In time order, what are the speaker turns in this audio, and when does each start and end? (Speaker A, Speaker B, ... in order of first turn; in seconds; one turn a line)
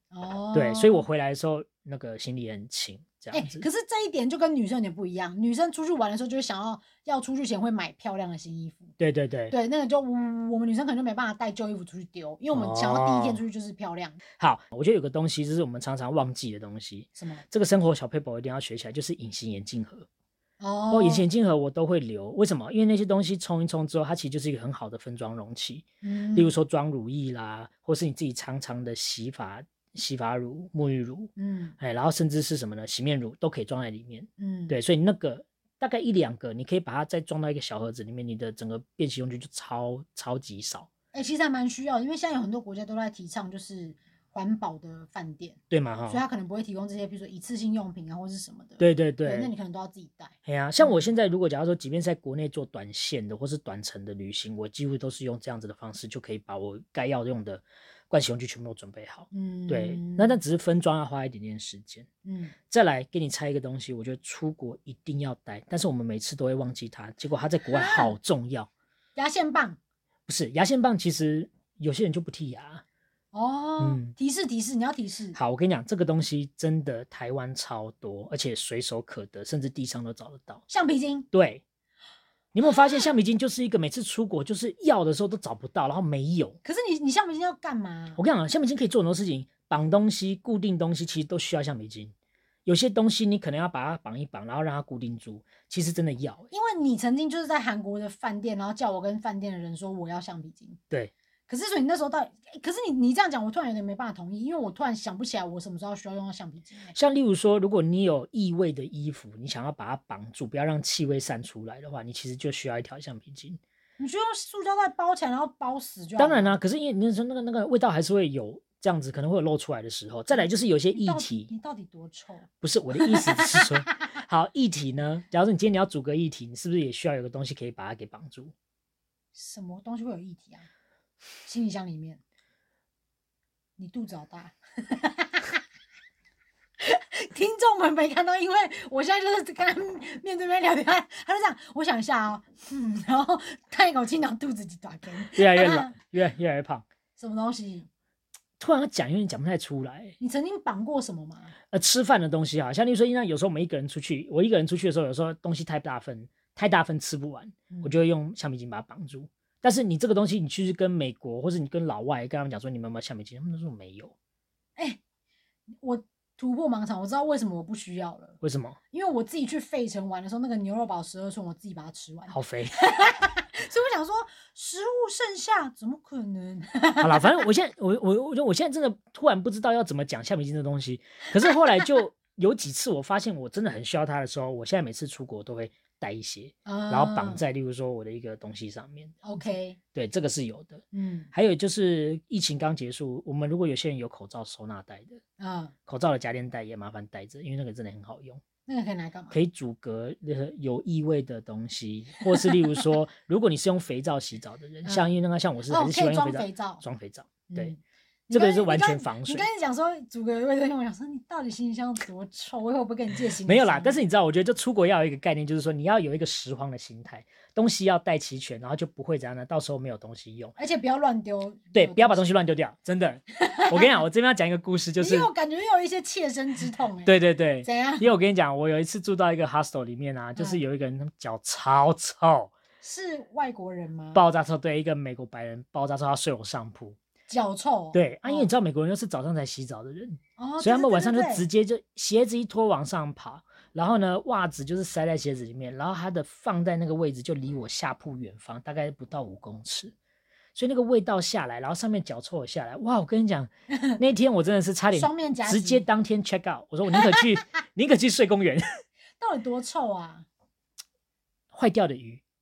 Speaker A: 0.1-1.1
Speaker B: 0.5-3.6
Speaker A: 3.3-8.9
Speaker B: 9.0-9.5
Speaker A: 9.5-14.2
Speaker B: 12.5-13.4
Speaker B: 14.4-20.1
Speaker A: 17.2-17.4
Speaker A: 20.6-21.2
Speaker B: 20.9-40.9
Speaker A: 26.0-26.5
Speaker A: 31.4-31.8
Speaker A: 34.4-34.8
Speaker A: 41.1-51.1
Speaker B: 45.7-46.2
Speaker B: 48.8-49.5
Speaker B: 50.5-62.1
Speaker A: 59.3-60.4
Speaker A: 62.2-62.5
Speaker B: 62.7-68.7
Speaker A: 67.7-68.1
Speaker A: 69.2-69.8
Speaker B: 70.3-72.8
Speaker A: 73.3-75.4
Speaker B: 73.8-74.1
Speaker B: 75.3-80.6
Speaker A: 80.7-81.3
Speaker B: 81.3-81.6
Speaker B: 82.5-86.6
Speaker A: 86.6-88.2
Speaker B: 88.2-92.1
Speaker B: 92.7-96.5
Speaker A: 96.5-100.8
Speaker A: 101.5-107.0
Speaker B: 107.0-113.6
Speaker A: 114.0-116.6
Speaker B: 116.2-121.5
Speaker A: 120.3-123.9
Speaker B: 122.6-128.5
Speaker A: 129.3-130.7
Speaker A: 131.4-132.2
Speaker A: 133.8-135.5
Speaker A: 136.8-146.0
Speaker B: 145.4-146.8
Speaker A: 147.2-147.9
Speaker B: 148.6-150.2
Speaker A: 150.2-151.6
Speaker B: 151.7-164.1
Speaker A: 157.7-158.0
Speaker A: 165.8-168.4
Speaker B: 168.4-168.8
Speaker A: 168.9-177.5
Speaker B: 172.3-172.8
Speaker B: 177.0-189.4
Speaker A: 186.7-187.4
Speaker A: 189.2-189.8
Speaker B: 189.9-195.2
Speaker A: 190.9-191.3
Speaker A: 195.4-195.7
Speaker B: 195.9-198.4
Speaker A: 198.7-199.4
Speaker B: 199.3-207.7
Speaker A: 204.8-205.1
Speaker A: 205.7-206.8
Speaker A: 207.5-214.0
Speaker B: 208.3-209.5
Speaker B: 213.4-220.5
Speaker A: 220.6-222.2
Speaker B: 221.7-225.3
Speaker A: 223.4-224.0
Speaker A: 225.0-227.1
Speaker B: 227.0-232.5
Speaker A: 227.6-228.1
Speaker A: 230.4-230.6
Speaker A: 232.8-234.2
Speaker B: 234.1-237.0
Speaker A: 237.3-238.5
Speaker B: 237.9-249.9
Speaker A: 240.4-241.5
Speaker B: 250.5-258.6
Speaker A: 254.9-255.8
Speaker A: 259.2-260.2
Speaker B: 261.5-262.2